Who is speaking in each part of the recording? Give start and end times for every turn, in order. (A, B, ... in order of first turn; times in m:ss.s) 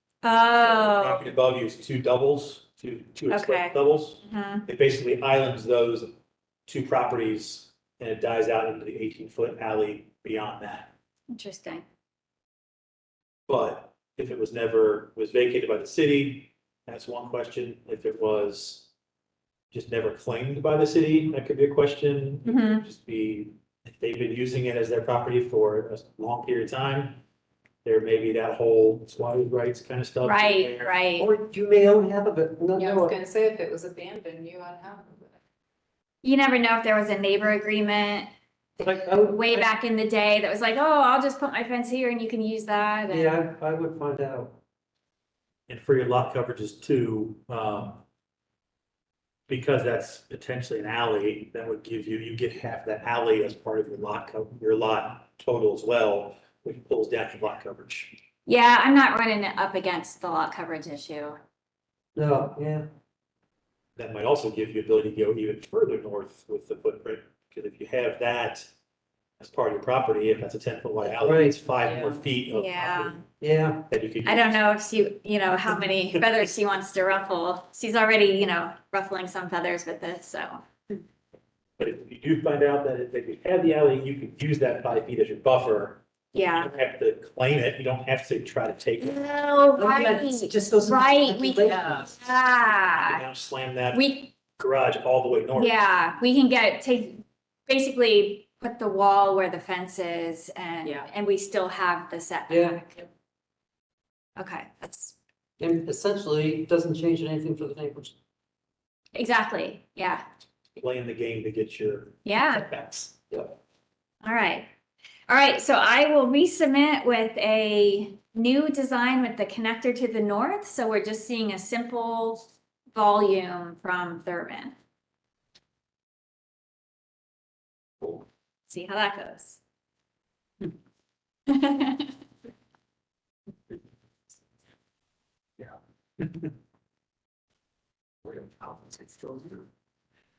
0:00.2-0:01.2 A
0:00.6-0:06.1 B
0:03.3-0:04.6 A
0:06.7-0:10.9 B
0:11.3-0:11.8 A
0:13.5-0:18.9 B
0:19.7-0:27.2 B
0:22.4-0:22.8 A
0:27.8-0:31.0 B
0:30.2-0:31.3 A
0:31.2-0:33.2 C
0:32.8-0:35.4 D
0:36.2-0:38.3 A
0:38.8-0:39.7 C
0:39.2-0:43.4 A
0:43.1-0:44.5 C
0:45.7-0:48.0 B
0:49.5-0:58.2 B
0:58.4-1:01.4 A
1:02.2-1:02.9 C
1:04.0-1:08.7 B
1:09.4-1:13.2 B
1:11.2-1:11.6 C
1:11.8-1:12.2 D
1:12.5-1:13.2 A
1:13.4-1:13.8 C
1:13.9-1:14.6 B
1:14.2-1:20.6 A
1:21.8-1:26.0 B
1:26.3-1:26.7 A
1:26.6-1:29.2 B
1:29.0-1:33.2 A
1:29.8-1:32.2 C
1:31.6-1:32.1 D
1:33.0-1:35.8 B
1:33.9-1:34.3 A
1:35.6-1:43.0 A
1:40.8-1:41.1 D
1:42.5-1:42.8 C
1:44.4-1:45.2 A
1:45.6-1:48.2 C
1:49.2-1:50.2 A
1:50.8-1:53.1 B
1:52.2-1:52.7 A
1:54.2-1:54.7 A
1:55.3-2:04.7 A
2:08.7-2:09.6 A
2:11.5-2:12.1 A
2:18.2-2:19.7 C